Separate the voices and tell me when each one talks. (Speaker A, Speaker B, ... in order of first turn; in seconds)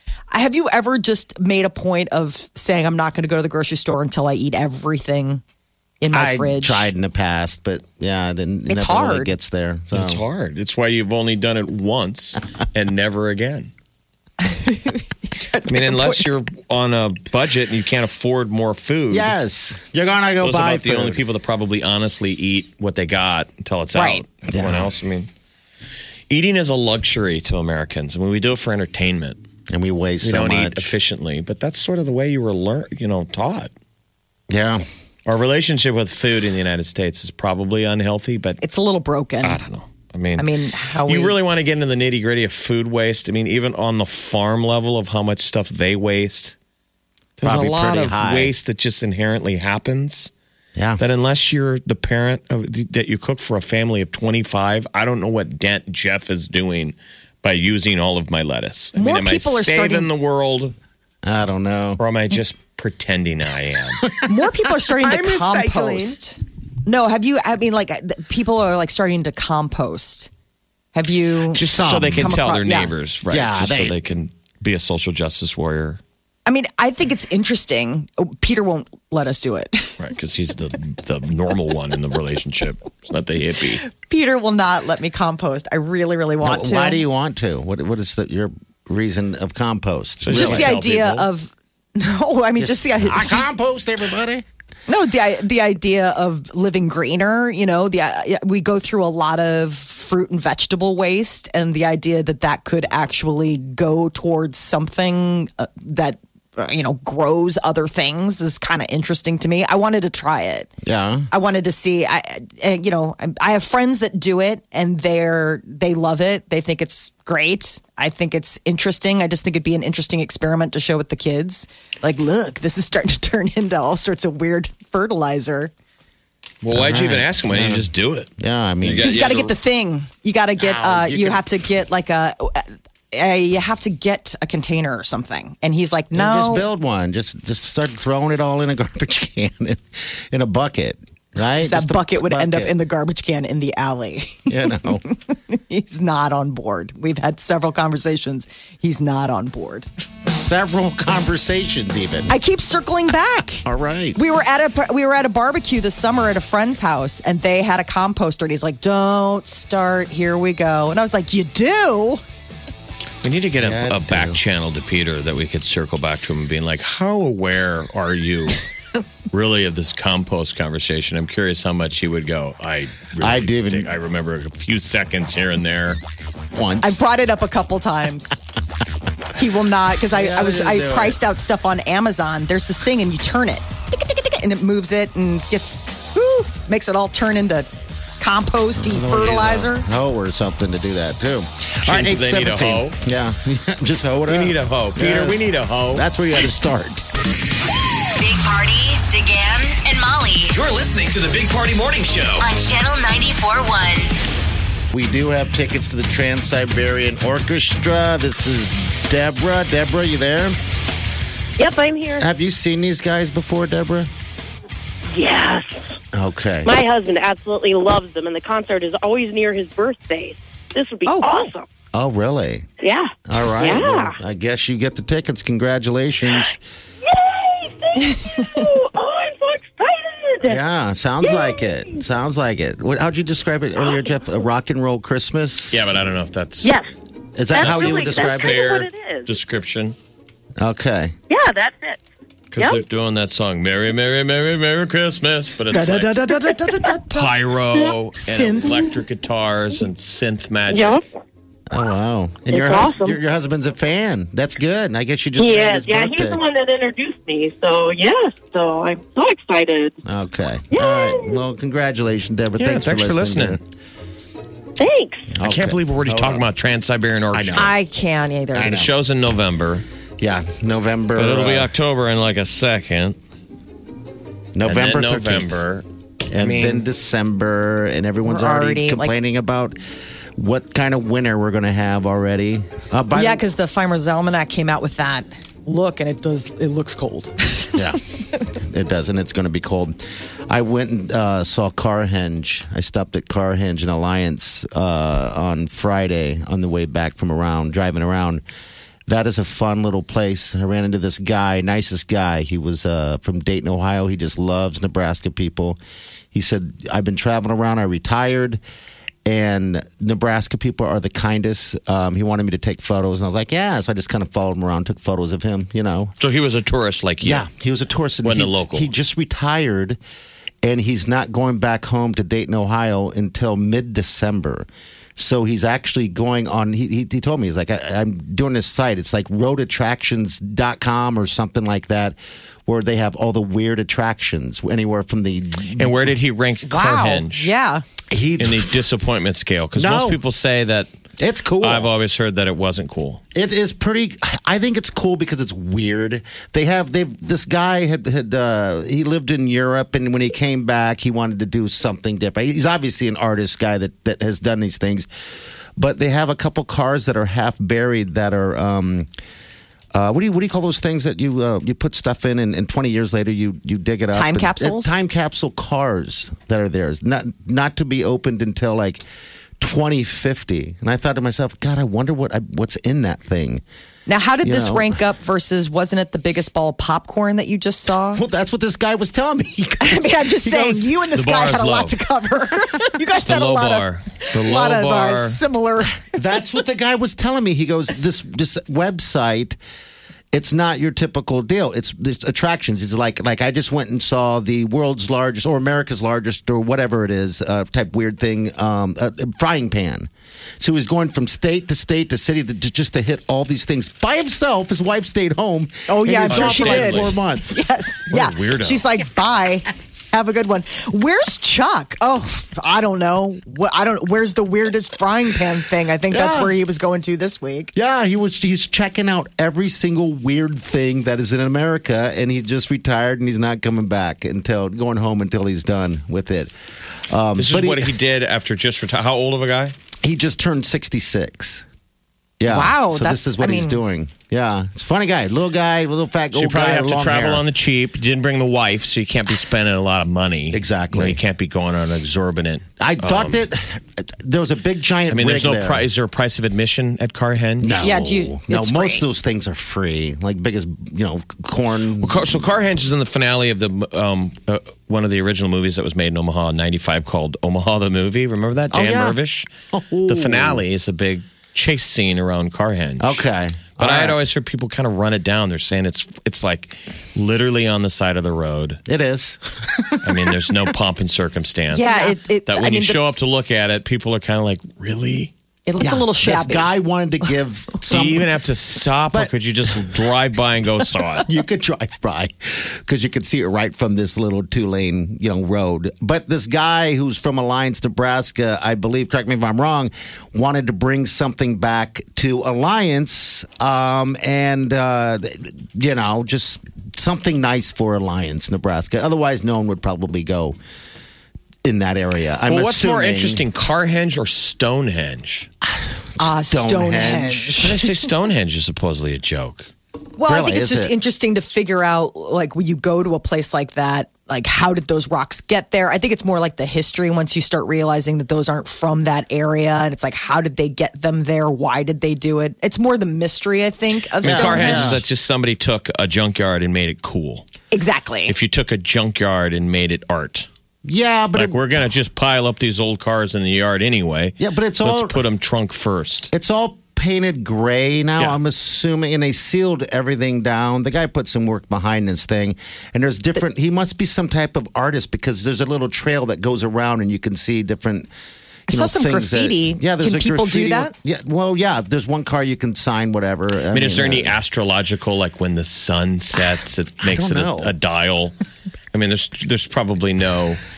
Speaker A: 0.3-5.4, 6.0-6.9, 8.7-9.3, 14.4-16.3, 23.9-24.2, 38.6-39.6, 40.4-41.4, 58.9-60.1, 64.2-70.3, 70.9-72.9, 76.5-80.0, 83.8-87.0, 90.3-93.5, 94.9-110.7, 111.3-125.7, 129.0-136.7, 141.6-149.9, 152.3-162.2, 176.8-178.4, 179.3-187.7, 188.2-189.9, 221.0-221.5, 228.1-228.7, 245.7-247.3, 248.2-248.9, 267.5-268.9, 278.2-279.1, 283.1-287.8, 336.7-337.8, 364.1-365.0, 374.1-378.2, 379.8-386.1, 405.9-417.7, 432.5-433.8, 447.8-449.0, 471.7-473.0, 475.7-476.7, 506.2-507.9, 510.2-525.0, 527.7-528.3, 548.7-550.9
Speaker B: 6.1-10.2, 19.1-21.2, 24.5-24.9, 29.7-31.0, 34.5-34.8, 47.4-48.5, 50.8-51.0, 61.2-62.0, 71.6-72.3, 73.3-74.0, 86.4-90.7, 92.6-94.5, 110.8-111.3, 126.7-129.4, 130.6-131.4, 136.1-142.7, 144.5-145.0, 150.2-152.3, 153.6-154.2, 163.6-164.4, 173.2-173.9, 176.5-177.0, 180.1-181.2, 188.8-197.1, 204.9-210.6, 212.2-214.1, 216.1-216.8, 221.9-222.7, 223.3-226.6, 230.4-235.9, 237.3-238.6, 240.6-241.1, 251.7-256.4, 260.0-263.6, 265.3-266.5, 267.3-267.7, 268.5-268.9, 270.2-271.7, 274.5-275.5, 276.3-279.8, 280.4-283.4, 287.7-290.0, 290.5-298.4, 299.1-305.8, 306.3-308.6, 309.2-316.1, 317.2-320.0, 320.6-335.9, 338.1-338.8, 339.8-340.2, 341.2-341.9, 343.3-355.1, 355.8-359.1, 359.9-369.0, 369.6-373.6, 374.4-375.0, 378.1-380.1, 386.1-389.6, 390.3-407.6, 416.1-416.6, 417.7-426.5, 427.1-427.9, 430.0-431.6, 432.4-437.4, 440.5-441.2, 442.8-445.9, 447.6-452.5, 458.7-459.2, 459.7-460.6, 463.0-464.2, 468.9-470.4, 475.8-478.3, 479.1-480.0, 481.2-500.6, 501.6-503.4, 505.6-507.7, 510.2-510.9, 524.2-525.0, 530.8-531.6, 534.4-535.2, 536.3-548.1, 548.7-554.4, 557.0-557.7
Speaker C: 9.9-13.7, 15.7-19.3, 20.4-25.3, 26.3-29.4, 30.2-33.7, 35.2-38.6, 39.4-40.5, 41.1-46.5, 47.4-50.3, 51.0-60.7, 62.0-64.1, 65.0-66.1, 71.5-76.0, 80.0-83.8, 90.2-91.3, 126.6-128.3, 128.8-129.5, 163.2-168.7, 169.3-176.0, 191.8-193.0, 194.3-196.1, 235.7-236.8, 237.6-239.9, 242.5-246.1, 247.1-251.0, 262.6-263.6, 265.4-267.7, 268.5-269.8, 271.1-273.2, 274.6-276.8, 316.2-317.5, 318.2-318.9, 335.7-337.5, 338.4-340.9, 341.6-343.2, 380.5-382.0, 383.0-385.4, 406.3-407.1, 408.1-408.9, 427.4-429.8, 436.3-443.4, 445.1-447.8, 452.0-459.5, 460.1-463.2, 463.8-468.8, 470.0-475.3, 477.9-481.3, 502.5-505.5, 507.6-509.7, 524.2-527.5, 528.3-530.5, 531.3-536.3, 553.7-558.4, 558.9-560.6
Speaker D: 198.2-200.6, 202.4-204.2
Speaker E: 200.5-202.5
Speaker F: 211.6-212.3, 215.1-216.0, 216.6-221.7, 222.8-224.2, 227.0-230.6, 231.2-232.0, 236.6-236.9, 237.5-239.3, 241.3-242.0, 250.7-251.0, 252.5-253.2, 255.4-260.0, 260.7-261.4, 264.8-265.3